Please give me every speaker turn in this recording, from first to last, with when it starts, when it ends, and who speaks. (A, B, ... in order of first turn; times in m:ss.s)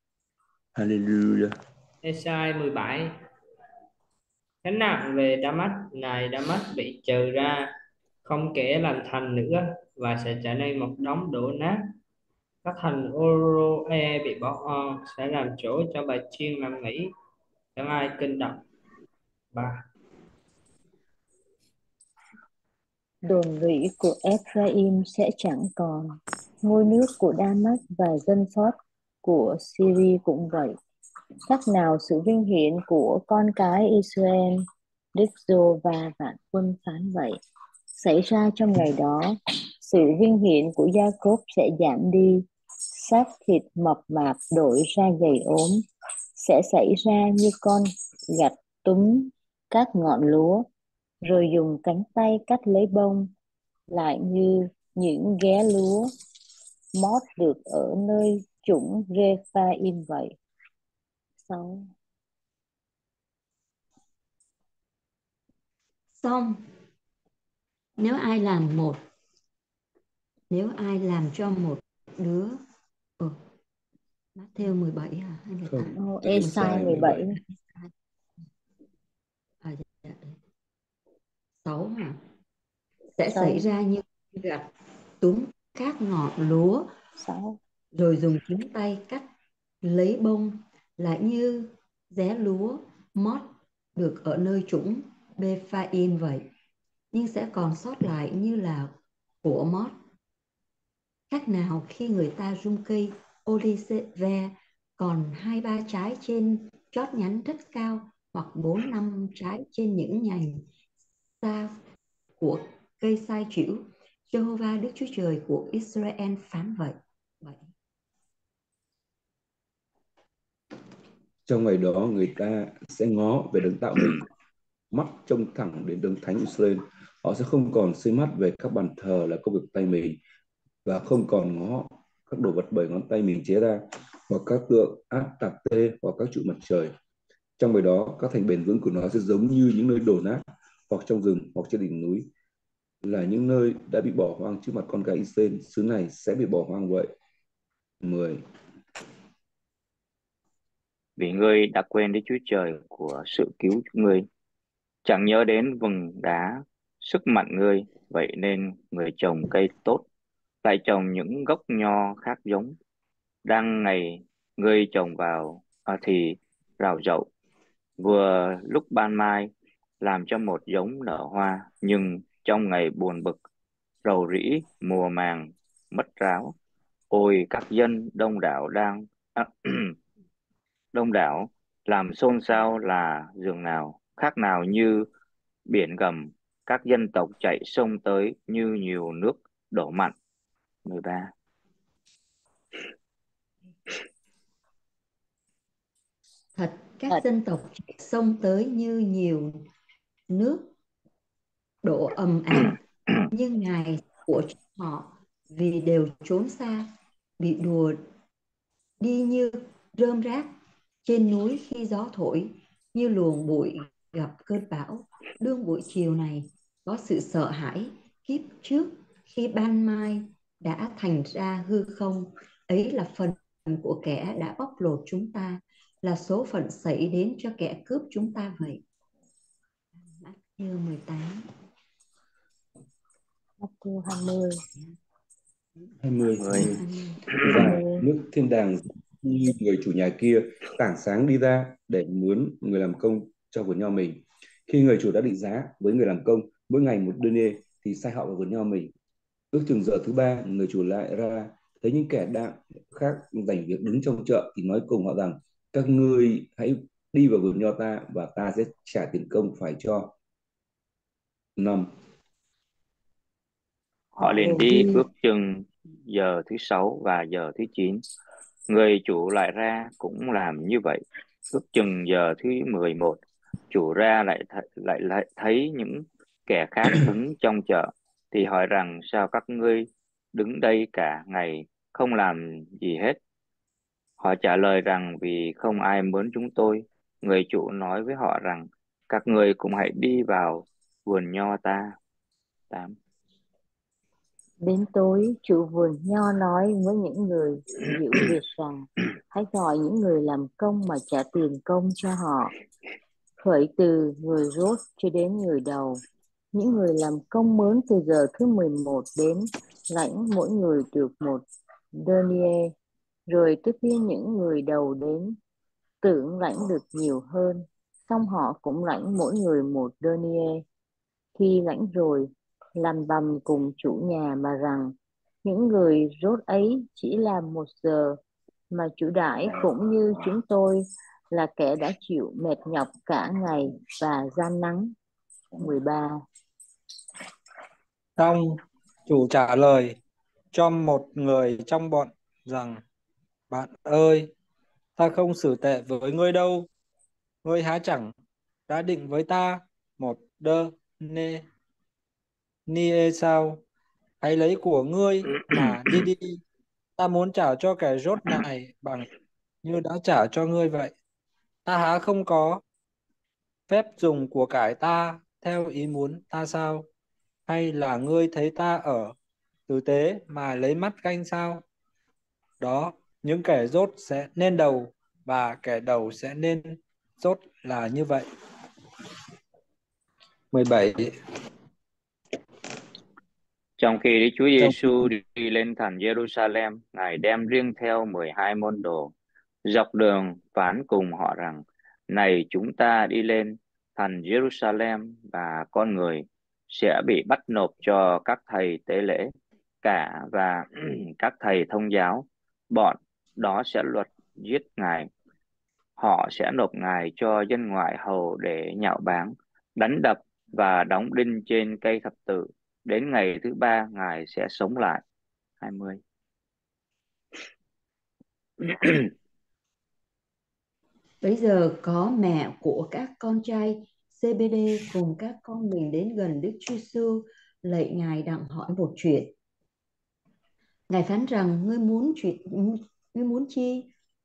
0:00.7-0:01.5 A
0:02.0-0:03.2 B
0:04.6-0:12.0 B
0:12.6-0:17.1 B
0:17.8-0:18.6 B
0:19.5-0:19.8 B
0:23.2-0:30.8 C
0:31.5-0:34.6 C
0:35.2-0:37.4 C
0:38.0-0:45.8 C
0:46.4-0:50.7 C
0:51.2-0:53.3 C
0:53.9-0:56.1 C
0:57.0-1:00.3 C
1:01.4-1:01.9 C
1:06.2-1:06.6 D
1:08.0-1:09.0 D
1:10.5-1:12.6 D
1:14.4-1:17.2 D
1:15.7-1:17.2 A
1:16.0-1:17.3 C
1:19.6-1:20.4 D
1:21.6-1:22.2 D
1:23.1-1:24.7 D
1:23.3-1:23.6 C
1:25.2-1:26.9 D
1:27.2-1:27.6 C
1:27.9-1:29.3 D
1:29.8-1:36.5 D
1:37.1-1:38.9 D
1:39.4-1:39.9 D
1:41.3-1:50.6 D
1:51.4-1:51.8 D
1:52.4-1:57.7 D
2:01.4-2:04.3 A
2:04.9-2:10.2 A
2:10.8-2:16.9 A
2:17.6-2:22.3 A
2:23.0-2:27.1 A
2:28.0-2:28.4 A
2:31.2-2:34.3 E
2:35.0-2:40.0 E
2:40.6-2:42.8 E
2:43.4-2:47.3 E
2:48.0-2:53.4 E
2:54.0-2:56.6 E
2:57.1-2:59.9 E
3:00.9-3:05.1 E
3:05.7-3:10.1 E
3:10.8-3:11.3 E
3:16.6-3:19.6 D
3:20.3-3:20.7 D
3:21.8-3:28.0 D
3:29.0-3:30.5 D
3:31.0-3:48.8 D
3:50.0-3:51.4 D
3:53.6-3:54.6 C
3:56.0-4:08.9 A
3:56.4-3:56.7 E
3:56.6-3:57.2 D
3:57.4-3:58.0 C
4:09.5-4:20.1 A
4:21.6-4:21.9 A
4:24.2-4:28.0 E
4:24.2-4:25.0 C
4:28.7-4:33.2 E
4:33.7-4:43.2 E
4:44.2-4:51.9 E
4:52.7-4:53.0 E
4:54.6-5:02.5 C
5:03.4-5:06.0 C
5:06.5-5:11.4 C
5:11.9-5:12.7 C
5:13.3-5:15.4 C
5:16.0-5:20.6 C
5:21.4-5:28.2 C
5:28.7-5:34.9 C
5:35.6-5:36.2 C
5:38.2-5:40.0 F
5:40.5-5:42.8 F
5:43.5-5:44.3 F
5:45.0-5:46.7 F
5:47.4-5:48.1 F
5:48.7-5:51.4 F
5:52.7-5:53.6 F
5:54.2-5:56.4 F
5:57.0-5:59.1 F
5:59.6-6:00.9 F
6:01.6-6:02.6 F
6:03.7-6:06.9 F
6:07.5-6:09.1 F
6:09.7-6:11.6 F
6:12.6-6:18.2 F
6:20.5-6:21.1 F
6:23.8-6:29.1 E
6:29.6-6:45.1 E
6:46.0-6:55.0 E
6:55.6-6:56.0 E
6:58.6-6:59.1 E
7:01.2-7:09.3 D
7:10.9-7:13.9 D